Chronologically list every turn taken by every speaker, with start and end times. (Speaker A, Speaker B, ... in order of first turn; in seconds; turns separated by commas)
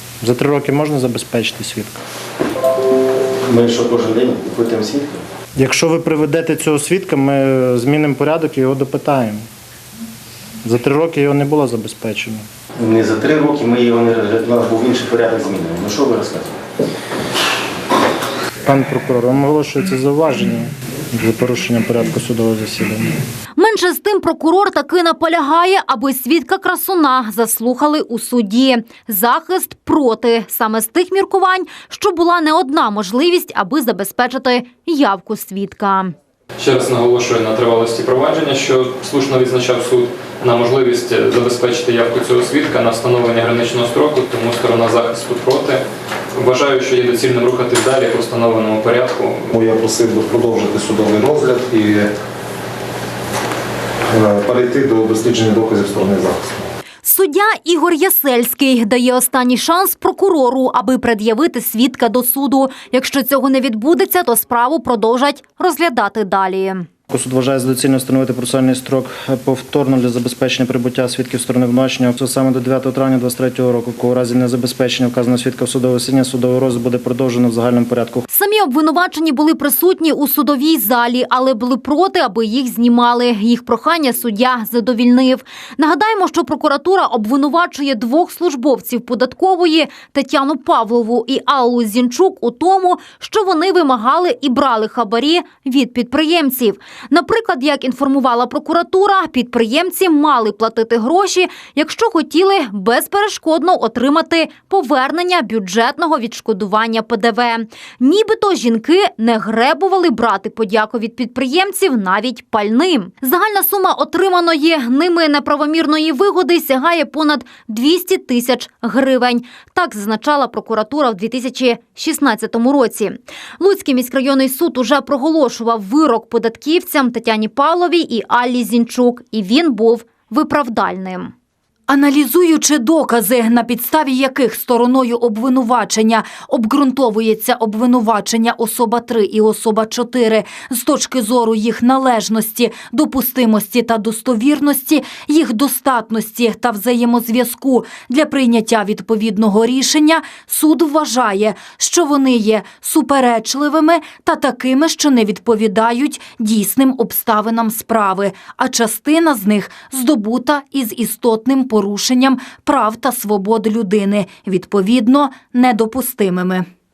Speaker A: 0.2-2.0, Speaker B: 3.4-5.2, Speaker A: 5.6-9.4, Speaker A: 10.6-12.4, Speaker B: 12.8-16.6, Speaker A: 18.6-23.1, Speaker C: 23.6-36.1, Speaker D: 36.6-45.8, Speaker D: 46.3-49.5, Speaker E: 49.5-52.1, Speaker E: 54.1-56.5, Speaker C: 57.0-66.9, Speaker A: 67.1-78.3, Speaker C: 78.3-131.3, Speaker F: 131.9-166.7